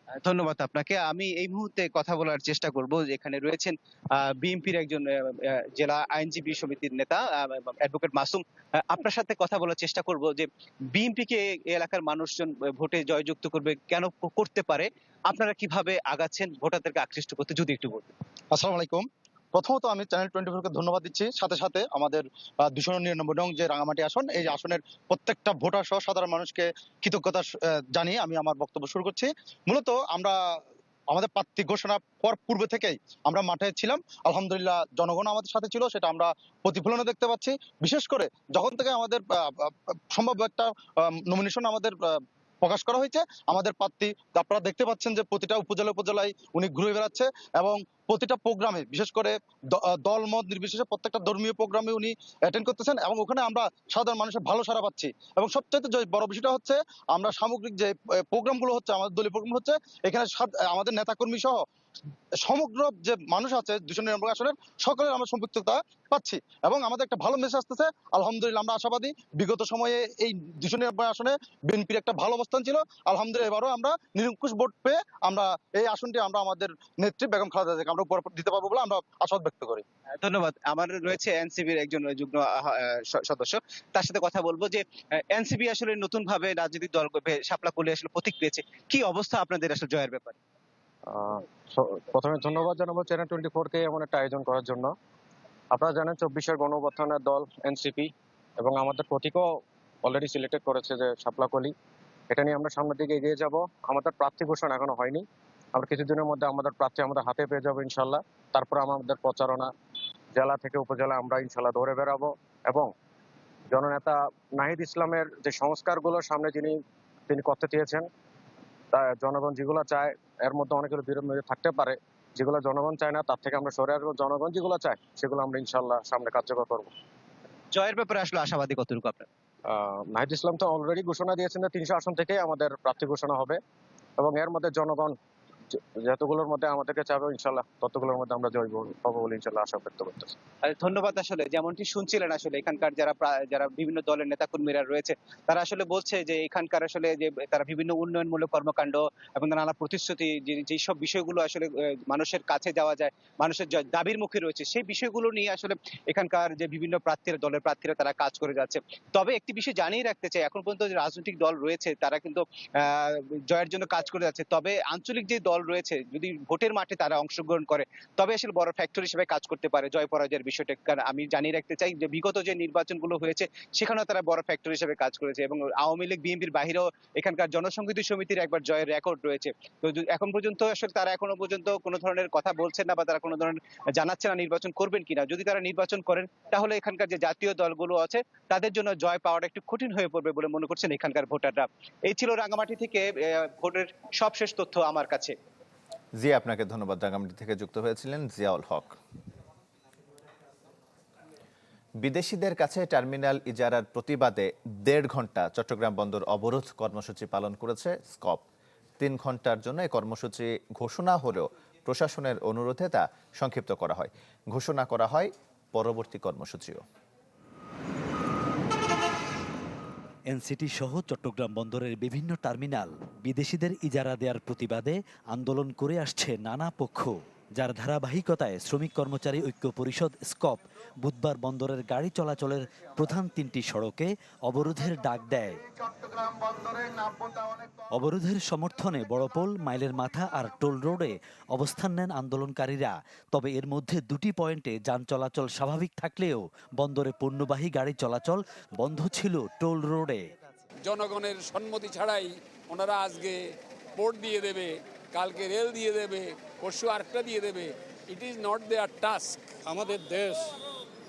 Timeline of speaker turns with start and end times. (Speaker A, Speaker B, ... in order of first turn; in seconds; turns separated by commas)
Speaker A: 0.2-18.1, Speaker B: 18.5-30.4, Speaker B: 31.1-61.6, Speaker B: 62.4-79.8, Speaker A: 80.2-90.4, Speaker C: 91.1-94.9, Speaker C: 95.7-101.7, Speaker C: 102.3-109.7, Speaker C: 110.3-112.9, Speaker C: 113.7-118.1, Speaker C: 118.9-126.9, Speaker A: 127.7-129.3, Speaker C: 129.7-133.6, Speaker C: 134.2-135.2, Speaker C: 135.8-140.3, Speaker A: 140.6-195.3, Speaker D: 196.2-199.0, Speaker D: 202.0-208.4, Speaker D: 209.0-216.8, Speaker E: 220.3-235.6, Speaker E: 237.9-250.3, Speaker F: 250.9-253.4, Speaker F: 254.0-259.4, Speaker C: 259.7-260.5